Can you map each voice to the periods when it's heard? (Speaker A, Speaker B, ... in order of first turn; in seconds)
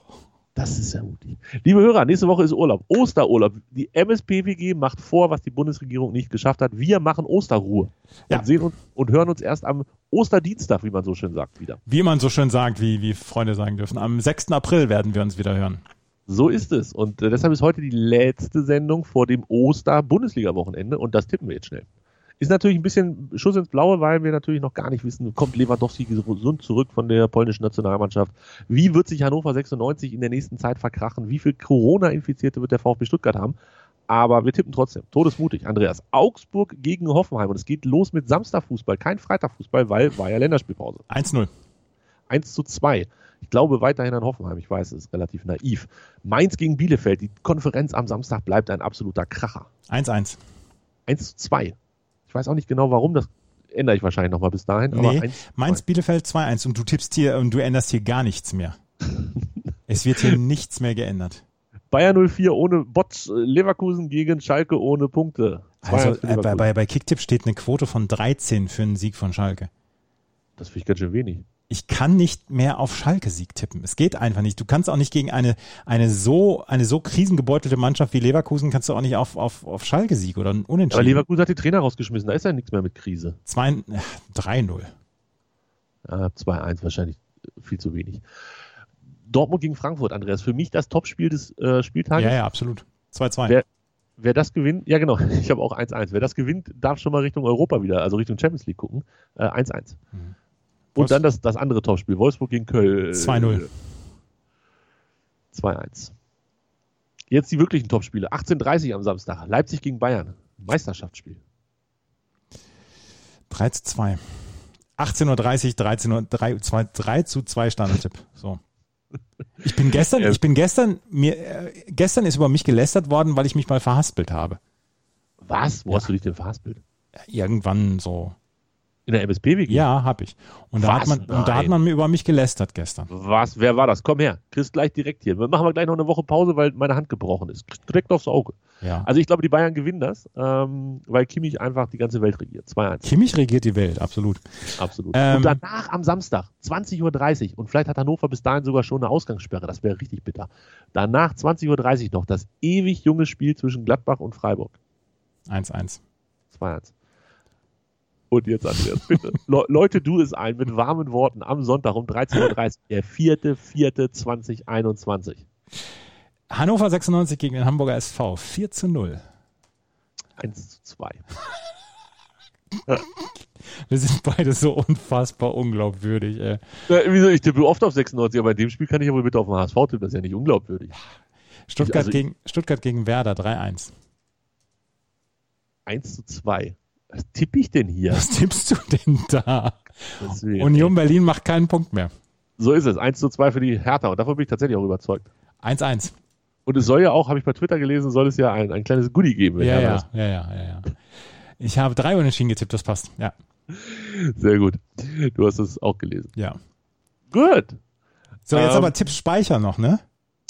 Speaker A: 0.6-11.8, 16.3-21.9, 22.4-33.6, 34.1-41.0, 42.3-49.7, 51.1-51.8, 52.3-55.8, 61.9-66.7, 70.6-71.5, 80.9-83.4, 86.1-88.2, 89.3-92.4, 94.2-100.0, 101.0-103.7, 105.5-106.1, 107.3-111.4, 120.0-120.4, 125.4-126.8, 129.1-129.9, 130.8-131.7, 133.1-143.1, 144.8-154.8, 156.5-156.9, 158.3-165.4, 170.4-171.2, 176.9-181.0, 181.8-182.2, 185.9-188.3, 190.2-191.0, 192.6-195.3, 196.7-200.1, 203.7-206.3, 207.3-207.8, 208.5-209.0
Speaker B: 11.9-15.8, 41.1-41.5, 49.9-50.4, 54.9-58.8, 59.9-61.4, 65.8-69.7, 71.7-81.2, 83.5-84.9, 92.2-93.6, 101.0-101.2, 103.1-103.7, 113.5-118.6, 119.6-124.6, 127.3-128.3, 129.7-133.1, 138.8-139.1, 143.0-145.6, 155.5-156.0, 166.5-169.2, 173.2-176.6, 181.7-183.9, 188.1-192.1, 195.6-196.1, 199.6-203.3, 208.5-210.0